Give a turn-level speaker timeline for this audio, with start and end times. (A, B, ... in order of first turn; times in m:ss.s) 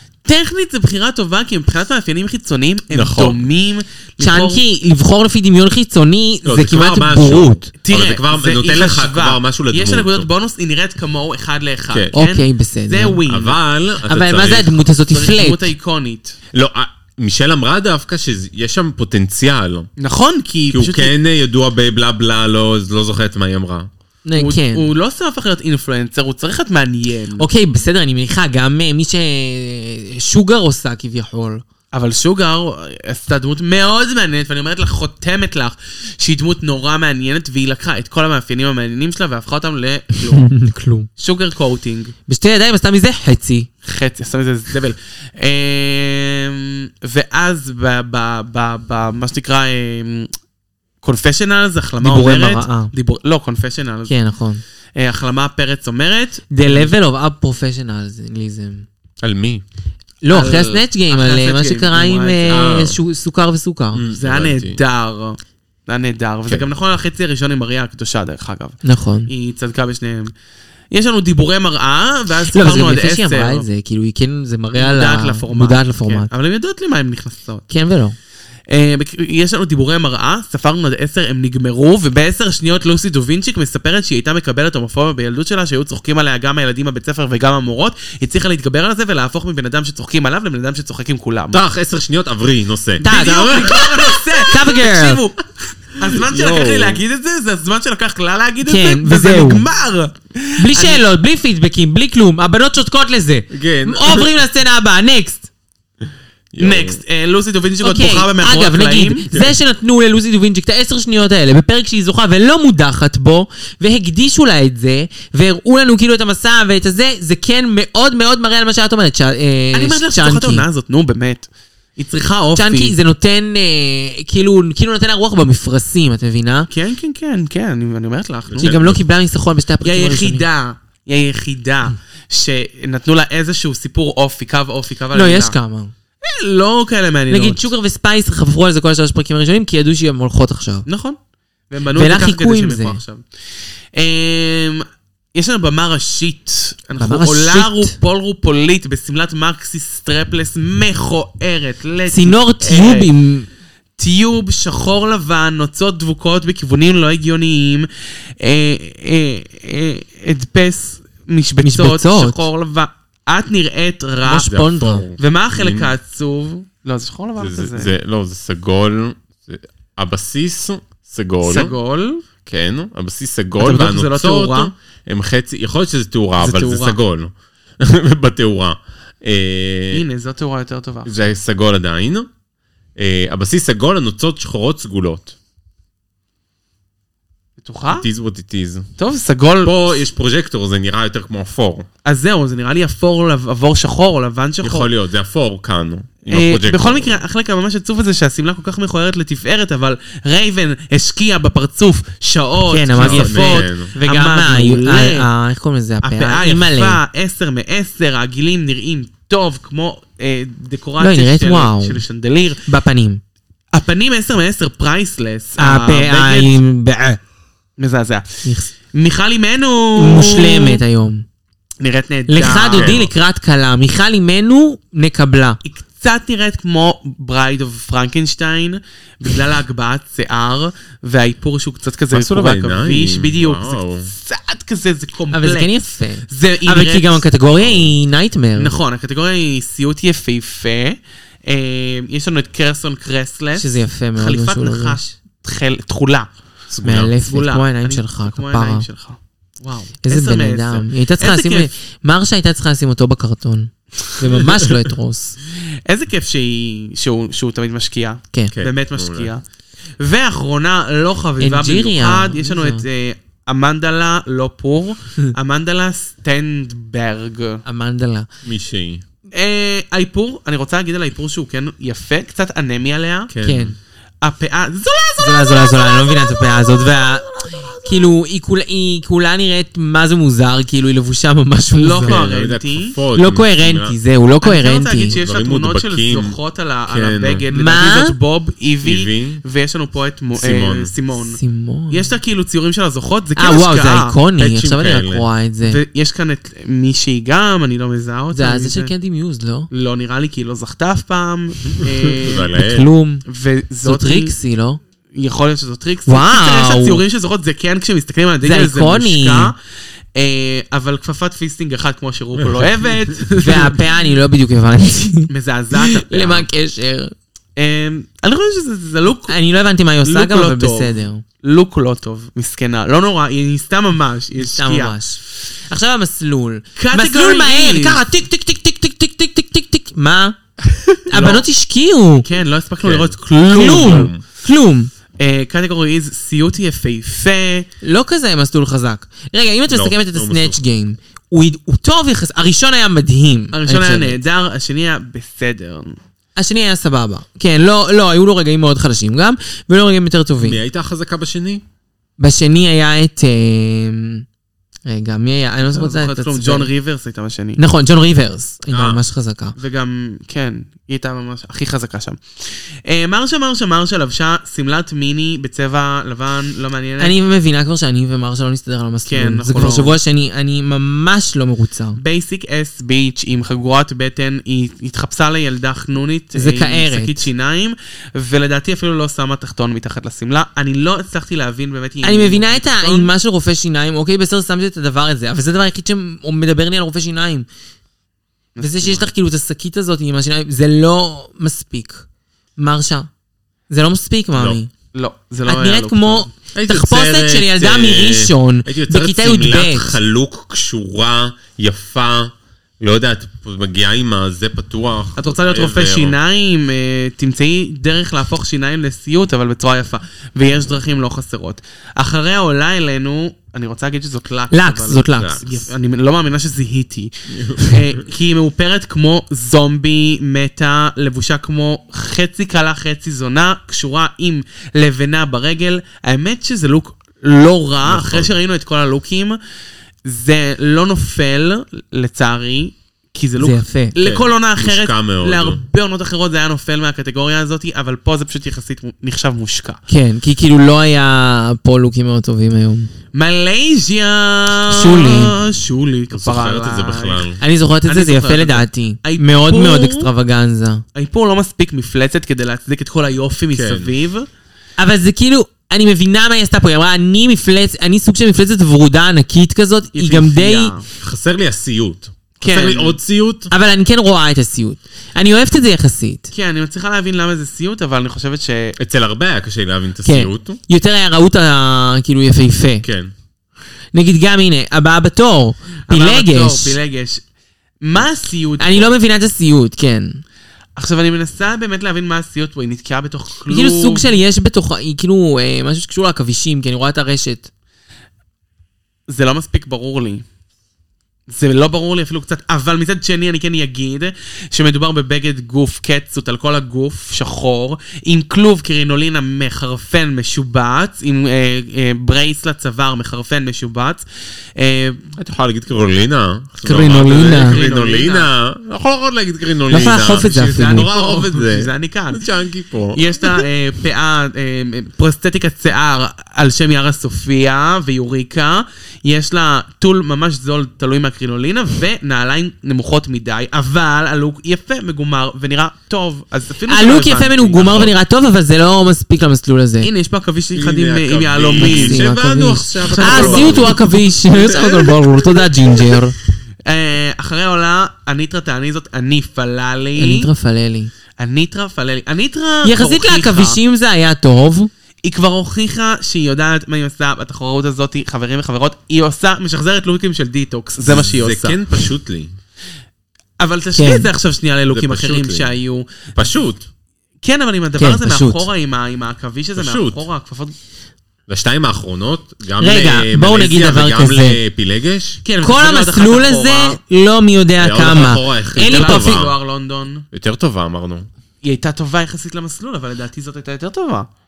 0:00.2-0:04.6 A
0:02.9-0:03.4 B
0:04.2-0:07.7 C
0:06.4-0:10.3 B
0:07.8-0:13.6 A
0:11.9-0:12.1 B
0:12.1-0:13.2 C
0:13.2-0:14.8 B
0:14.0-0:15.7 C
0:15.1-0:16.4 A
0:16.5-0:19.9 B
0:20.0-0:21.1 A
0:20.7-0:23.9 B
0:24.2-0:24.9 C
0:24.4-0:27.4 A
0:27.4-0:31.6 C
0:31.9-0:40.5 A
0:40.3-0:41.1 C
0:41.2-0:42.1 A
0:42.3-0:43.7 C
0:43.8-0:50.3 A
0:51.0-0:54.1 A
0:52.0-0:52.9 C
0:54.1-0:54.6 C
0:55.0-0:56.9 A
0:56.5-0:58.8 C
0:59.2-0:59.6 B
1:00.2-1:04.0 C
1:00.3-1:02.7 A
1:02.5-1:03.0 B
1:03.9-1:04.8 B
1:04.2-1:10.3 A
1:08.8-1:09.3 C
1:10.9-1:13.6 A
1:12.5-1:16.3 C
1:14.8-1:17.6 A
1:17.7-1:18.2 C
1:18.7-1:31.6 A
1:31.5-1:34.2 B
1:33.0-1:33.7 C
1:33.0-1:41.0 A
1:34.4-1:35.2 C
1:36.0-1:37.0 B
1:38.6-1:39.6 C
1:40.6-1:45.5 C
1:43.5-1:44.3 B
1:46.5-1:47.0 B
1:46.6-1:49.2 A
1:47.8-2:00.6 C
1:59.7-2:02.9 A
2:02.6-2:06.7 C
2:06.7-2:08.7 A
2:08.5-2:09.0 B
2:08.6-2:10.4 C
2:09.8-2:15.6 A
2:15.1-2:15.9 C
2:16.2-2:17.6 A
2:17.3-2:20.8 C
2:20.8-2:21.2 A
2:21.7-2:23.2 A
2:21.9-2:23.0 C
2:23.9-2:33.1 A
2:27.0-2:28.0 C
2:32.1-2:33.5 C
2:34.0-2:37.9 A
2:38.4-2:44.5 A
2:41.6-2:42.4 C
2:44.2-2:45.0 C
2:44.5-2:45.9 B
2:45.2-2:47.9 A
2:47.4-2:51.7 B
2:51.4-2:52.2 A
2:52.4-3:00.0 B
2:53.6-2:54.7 A
2:56.4-2:57.0 A
2:59.9-3:01.1 A
3:01.0-3:02.3 B
3:03.0-3:05.3 B
3:07.6-3:08.0 A
3:07.9-3:08.9 B
3:09.0-3:10.0 A
3:09.6-3:11.9 B
3:12.0-3:14.9 A
3:14.6-3:17.2 B
3:16.3-3:25.3 A
3:22.7-3:27.0 C
3:23.0-3:23.9 B
3:26.0-3:32.6 A
3:31.0-3:32.0 C
3:32.7-3:33.2 C
3:33.7-3:36.5 A
3:35.6-3:37.2 C
3:37.8-3:40.8 A
3:40.0-3:41.2 C
3:41.8-3:43.0 A
3:42.3-3:45.6 C
3:42.7-3:43.1 B
3:45.6-3:55.7 A
3:52.1-3:54.1 B
3:55.3-3:58.8 C
3:56.3-3:57.2 A
3:57.6-3:57.9 B
3:58.6-4:06.3 A
4:03.6-4:05.1 C
4:06.7-4:07.1 B
4:06.8-4:08.8 C
4:07.2-4:11.7 A
4:10.0-4:15.4 C
4:15.8-4:19.4 A
4:18.5-4:19.3 B
4:20.0-4:27.6 A
4:21.4-4:22.8 C
4:27.6-4:28.3 C
4:28.4-4:29.0 B
4:29.3-4:33.3 A
4:33.3-4:33.8 B
4:33.4-4:33.7 C
4:34.2-4:36.4 A
4:35.2-4:42.2 C
4:41.7-4:43.0 A
4:42.0-4:44.0 B
4:43.1-4:45.1 C
4:44.4-4:54.2 A
4:45.1-4:47.4 B
4:47.5-4:48.1 C
4:48.8-4:49.4 B
4:50.4-4:50.9 B
4:51.4-4:52.1 C
4:53.4-4:55.8 C
4:54.4-4:55.2 B
4:55.6-4:58.9 A
4:58.3-4:59.7 C
4:59.7-5:02.5 A
5:01.8-5:02.8 B
5:02.5-5:03.2 C
5:03.3-5:04.3 A
5:03.8-5:04.8 C
5:05.1-5:09.6 A
5:06.1-5:07.0 C
5:08.4-5:09.5 C
5:10.1-5:13.8 A
5:13.4-5:17.1 C
5:15.3-5:16.5 A
5:17.6-5:19.4 A
5:19.3-5:21.2 C
5:20.0-5:25.0 A
5:24.4-5:30.4 C
5:26.8-5:28.0 A
5:31.1-5:32.2 C
5:31.1-5:31.4 A
5:32.2-5:34.1 A
5:32.8-5:34.2 B
5:33.4-5:34.9 C
5:35.2-5:37.7 A
5:37.8-5:44.2 C
5:39.7-5:40.6 B
5:43.5-5:46.0 A
5:46.4-5:50.6 C
5:50.4-5:51.6 B
5:52.2-5:54.2 C
5:54.8-5:56.7 C
5:55.7-5:57.6 A
5:57.6-5:59.5 C
5:58.7-5:59.0 B
5:59.6-6:07.1 A
6:07.0-6:12.0 C
6:09.0-6:10.0 A
6:12.0-6:23.1 A
6:16.3-6:17.3 C
6:22.0-6:27.5 C
6:28.6-6:29.1 A
6:28.6-6:32.0 C
6:32.6-6:33.1 C
6:33.7-6:34.7 C
6:34.9-6:36.3 A
6:35.5-6:40.0 C
6:36.5-6:46.2 B
6:45.2-7:09.4 A
6:54.5-6:55.4 C
6:55.2-6:55.7 B
6:57.3-6:57.8 B
7:07.8-7:08.3 B
7:10.0-7:19.8 A
7:13.4-7:13.9 C
7:14.0-7:15.6 B
7:19.9-7:22.9 C
7:23.1-7:27.3 A
7:24.7-7:25.4 C
7:26.1-7:27.4 B
7:27.4-7:30.8 C
7:27.8-7:30.1 A
7:30.9-7:34.3 A
7:33.5-7:33.9 B
7:34.8-7:40.7 C
7:39.9-7:40.8 A
7:41.0-7:43.5 B
7:42.4-7:43.0 A
7:43.5-7:46.3 C
7:46.3-7:48.8 A
7:48.8-7:50.6 B
7:50.0-7:52.8 C
7:52.8-7:53.1 B
7:53.9-7:56.8 C
7:55.9-7:57.2 A
7:57.8-7:58.9 A
7:58.6-8:00.2 C
8:00.8-8:04.2 A
8:03.5-8:07.5 C
8:09.1-8:10.2 A
8:11.3-8:24.0 A
8:24.6-8:25.1 A
8:25.2-8:33.0 B
8:26.6-8:27.6 C
8:26.9-8:28.3 A
8:29.7-8:30.9 C
8:30.2-8:32.3 A
8:32.9-8:47.6 A
8:46.7-8:49.9 C
8:47.5-8:47.9 B
8:49.8-8:52.0 A
8:50.5-8:53.9 B
8:51.6-8:56.1 C
8:52.8-8:53.8 A
8:54.5-8:54.8 B
8:56.6-9:00.3 A
9:00.0-9:00.9 C
9:01.2-9:03.6 A
9:02.6-9:04.7 C
9:05.0-9:11.7 A
9:10.8-9:12.3 B
9:13.4-9:16.1 A
9:13.7-9:14.1 C
9:14.7-9:15.5 B
9:16.2-9:16.6 B
9:17.2-9:20.5 A
9:17.8-9:18.4 C
9:19.6-9:20.0 B
9:21.3-9:25.2 B
9:22.6-9:24.4 C
9:25.2-9:26.8 A
9:25.4-9:29.2 C
9:27.6-9:29.4 B
9:28.6-9:30.0 A
9:30.1-9:31.1 B
9:31.4-9:34.1 A